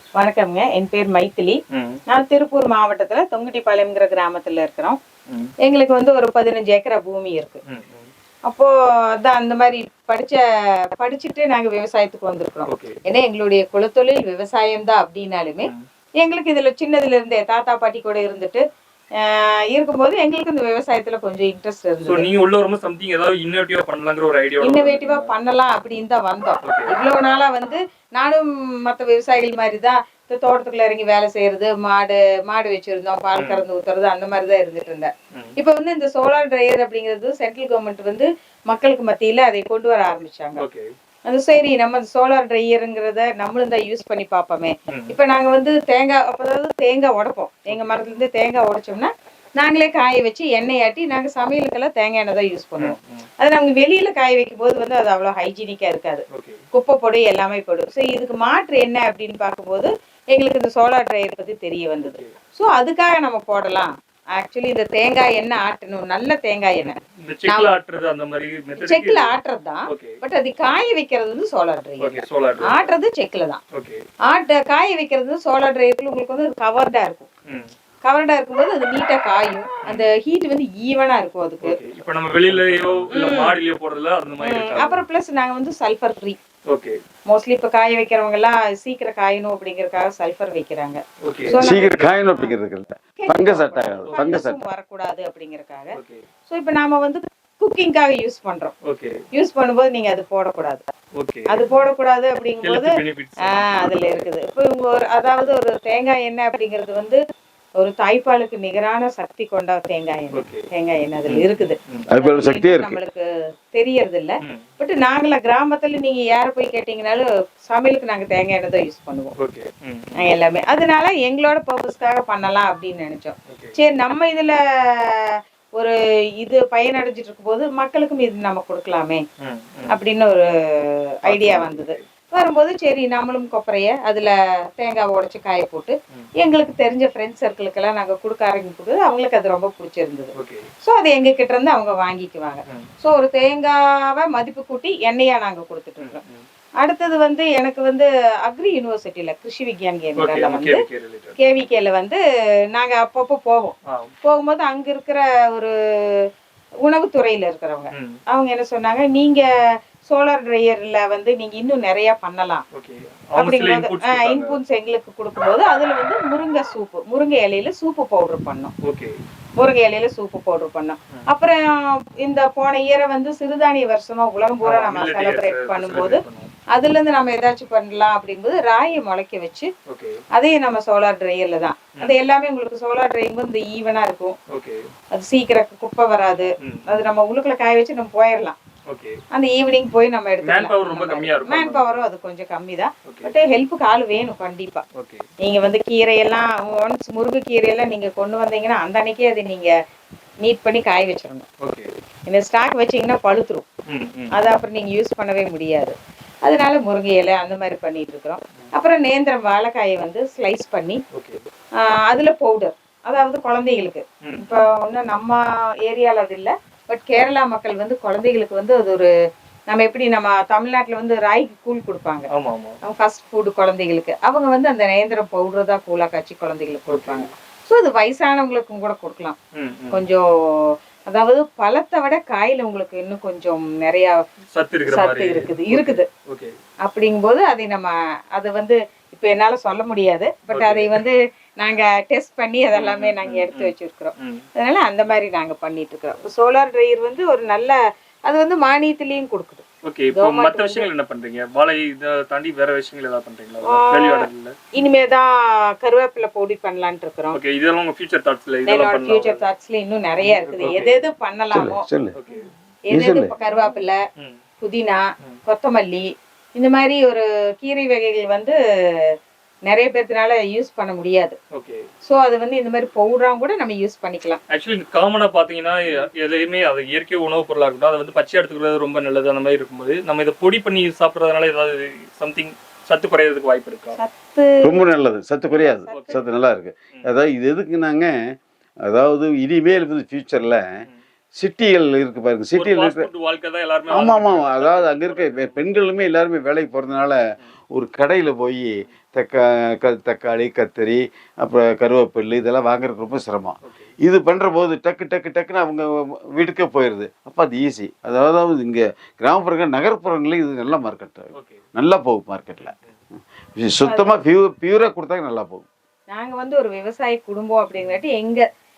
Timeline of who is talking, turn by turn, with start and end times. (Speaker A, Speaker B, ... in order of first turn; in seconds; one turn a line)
Speaker A: 0.2-5.0
Speaker B: 1.7-2.0
Speaker A: 5.7-7.6
Speaker B: 7.7-8.1
Speaker A: 8.5-10.4
Speaker A: 10.9-15.7
Speaker B: 12.7-13.0
Speaker A: 16.2-18.6
Speaker A: 19.2-22.3
Speaker B: 22.0-25.3
Speaker A: 24.6-40.6
Speaker B: 26.6-27.0
Speaker B: 33.4-33.6
Speaker B: 40.6-40.9
Speaker A: 41.3-67.7
Speaker B: 44.9-45.2
Speaker B: 47.7-48.0
Speaker B: 52.8-53.3
Speaker B: 56.3-56.6
Speaker B: 62.0-62.4
Speaker B: 66.8-69.3
Speaker A: 68.8-73.6
Speaker B: 69.9-70.2
Speaker B: 72.0-72.9
Speaker A: 74.3-77.3
Speaker A: 78.0-81.8
Speaker B: 81.6-85.0
Speaker C: 82.7-83.0
Speaker A: 83.1-83.6
Speaker A: 84.4-86.4
Speaker B: 86.7-87.0
Speaker A: 87.3-92.5
Speaker B: 91.3-92.1
Speaker C: 91.6-94.6
Speaker A: 93.2-95.9
Speaker B: 96.0-96.2
Speaker A: 96.5-98.7
Speaker B: 98.9-99.2
Speaker A: 99.3-100.9
Speaker B: 101.2-101.5
Speaker A: 101.5-103.0
Speaker B: 102.6-104.0
Speaker A: 103.5-107.2
Speaker A: 107.8-119.3
Speaker B: 110.3-110.7
Speaker B: 111.3-112.1
Speaker C: 112.1-113.0
Speaker B: 119.4-120.1
Speaker A: 120.2-129.2
Speaker B: 123.5-123.8
Speaker B: 129.4-129.9
Speaker A: 129.9-130.4
Speaker B: 131.2-132.1
Speaker A: 131.3-140.3
Speaker B: 140.4-140.7
Speaker A: 140.8-146.2
Speaker B: 146.0-146.4
Speaker A: 146.8-150.8
Speaker B: 150.2-151.4
Speaker A: 151.4-152.2
Speaker A: 152.7-155.7
Speaker A: 156.9-159.5
Speaker A: 160.1-162.6
Speaker B: 162.7-164.6
Speaker A: 163.4-168.7
Speaker B: 168.9-169.1
Speaker A: 169.6-176.2
Speaker B: 174.6-176.5
Speaker A: 176.7-179.7
Speaker B: 179.9-180.2
Speaker A: 180.3-184.4
Speaker B: 184.5-184.8
Speaker A: 185.1-188.6
Speaker B: 188.9-189.2
Speaker A: 189.3-194.8
Speaker B: 190.4-192.0
Speaker B: 193.1-193.3
Speaker B: 195.0-195.3
Speaker A: 195.4-199.7
Speaker A: 200.4-201.5
Speaker B: 201.6-201.9
Speaker A: 202.3-203.7
Speaker B: 203.9-204.3
Speaker A: 204.3-211.0
Speaker B: 211.1-211.4
Speaker A: 211.8-219.1
Speaker B: 214.2-214.6
Speaker A: 219.7-222.3
Speaker B: 222.3-222.8
Speaker A: 222.8-229.4
Speaker B: 226.9-227.3
Speaker B: 229.6-230.0
Speaker A: 229.9-230.2
Speaker A: 231.1-234.2
Speaker B: 234.5-236.6
Speaker A: 234.9-236.1
Speaker A: 236.9-250.9
Speaker B: 240.5-241.0
Speaker B: 242.8-244.4
Speaker B: 249.9-254.6
Speaker A: 253.7-257.4
Speaker B: 257.3-259.4
Speaker A: 258.7-261.9
Speaker B: 260.2-261.0
Speaker C: 261.5-262.1
Speaker B: 262.2-262.5
Speaker A: 262.9-264.0
Speaker C: 262.9-263.3
Speaker A: 264.6-266.1
Speaker A: 266.6-268.6
Speaker A: 269.7-271.4
Speaker B: 271.6-271.8
Speaker A: 272.1-274.4
Speaker B: 274.5-284.0
Speaker A: 284.0-284.8
Speaker C: 284.6-288.1
Speaker B: 285.8-286.2
Speaker A: 285.9-286.2
Speaker C: 288.8-290.7
Speaker C: 291.4-293.1
Speaker B: 292.6-295.7
Speaker C: 293.9-297.2
Speaker C: 297.7-312.7
Speaker B: 303.6-303.9
Speaker B: 311.4-311.6
Speaker B: 312.6-312.9
Speaker C: 313.6-315.6
Speaker A: 313.9-314.2
Speaker A: 316.1-318.4